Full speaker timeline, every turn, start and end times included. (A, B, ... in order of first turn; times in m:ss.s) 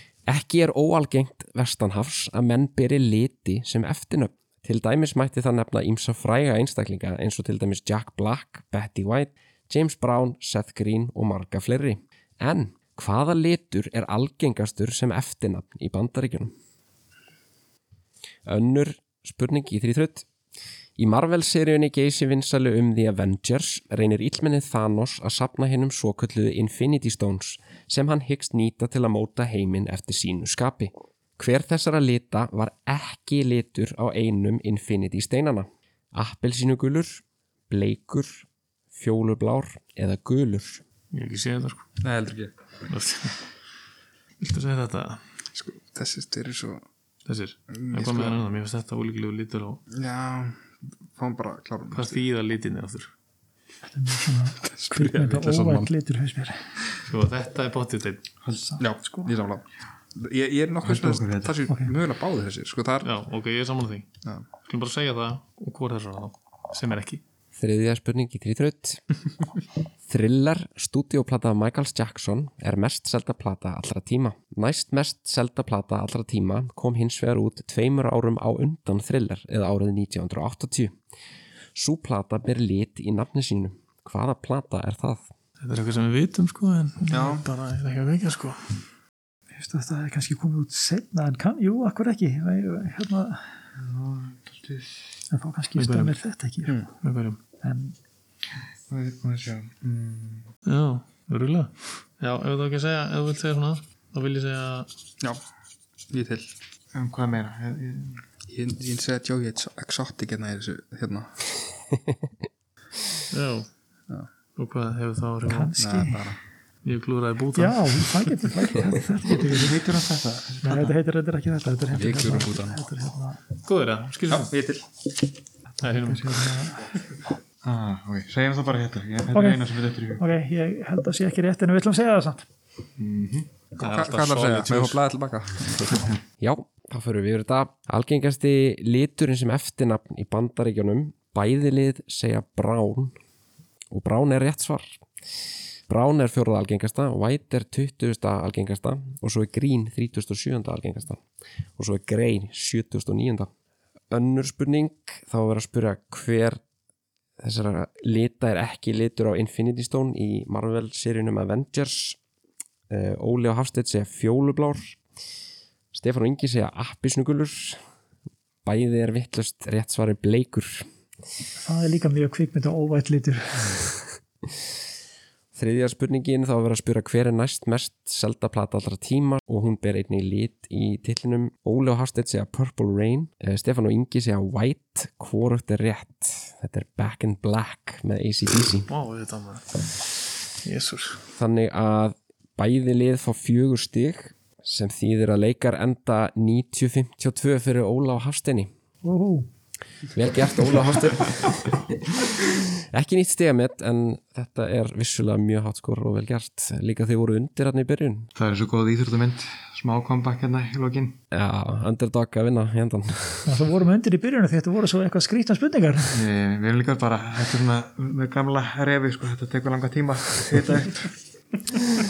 0:00.3-0:16.5 A
0:18.4-0:20.3 A
0:21.0-0:40.8 A
0:41.1-0:41.8 B
0:42.0-0:42.5 C
0:42.9-0:43.4 B
0:44.4-0:45.2 B
0:45.5-0:46.8 C
0:47.2-0:49.8 B
0:47.7-0:48.4 C
0:49.9-0:52.2 C
0:51.9-0:53.1 B
0:53.9-0:56.6 D
0:54.6-0:55.9 C
0:57.0-0:58.3 B
0:58.4-0:58.7 E
0:58.7-0:59.2 D
0:58.8-0:59.6 C
1:00.1-1:03.1 C
1:00.8-1:01.5 E
1:03.0-1:04.1 B
1:04.6-1:07.2 B
1:07.6-1:09.0 A
1:10.1-1:21.0 A
1:21.7-1:25.3 A
1:25.6-1:28.8 B
1:27.1-1:27.4 C
1:29.5-1:33.4 D
1:33.8-1:35.2 E
1:35.3-1:36.8 D
1:35.8-1:36.2 B
1:37.0-1:37.4 B
1:37.6-1:38.0 D
1:38.9-1:40.4 E
1:40.6-1:44.9 B
1:46.1-1:46.5 C
1:46.9-1:48.2 E
1:48.5-1:51.4 C
1:53.3-1:53.7 B
1:54.6-1:55.7 B
1:55.5-1:56.3 D
1:55.8-1:56.4 C
1:56.8-1:58.3 B
1:57.5-1:59.8 D
1:59.5-2:00.9 E
2:00.6-2:03.4 D
2:01.9-2:02.8 C
2:03.6-2:04.5 B
2:04.3-2:04.8 C
2:05.8-2:06.3 B
2:05.8-2:06.9 D
2:07.6-2:10.2 E
2:09.3-2:12.4 D
2:13.0-2:13.5 E
2:13.8-2:16.1 C
2:13.8-2:15.0 B
2:16.4-2:23.1 A
2:23.9-2:25.0 A
2:25.9-2:31.2 A
2:31.8-2:33.5 A
2:34.1-2:36.6 A
2:37.4-2:42.2 A
2:42.9-2:45.0 A
2:45.9-2:47.8 A
2:48.6-2:50.8 A
2:51.6-2:53.9 D
2:55.5-3:08.9 A
3:08.9-3:11.2 B
3:11.4-3:18.7 A
3:19.0-3:19.5 D
3:20.1-3:28.3 A
3:28.3-3:31.2 E
3:31.3-3:33.5 A
3:33.4-3:36.2 D
3:36.1-3:41.1 E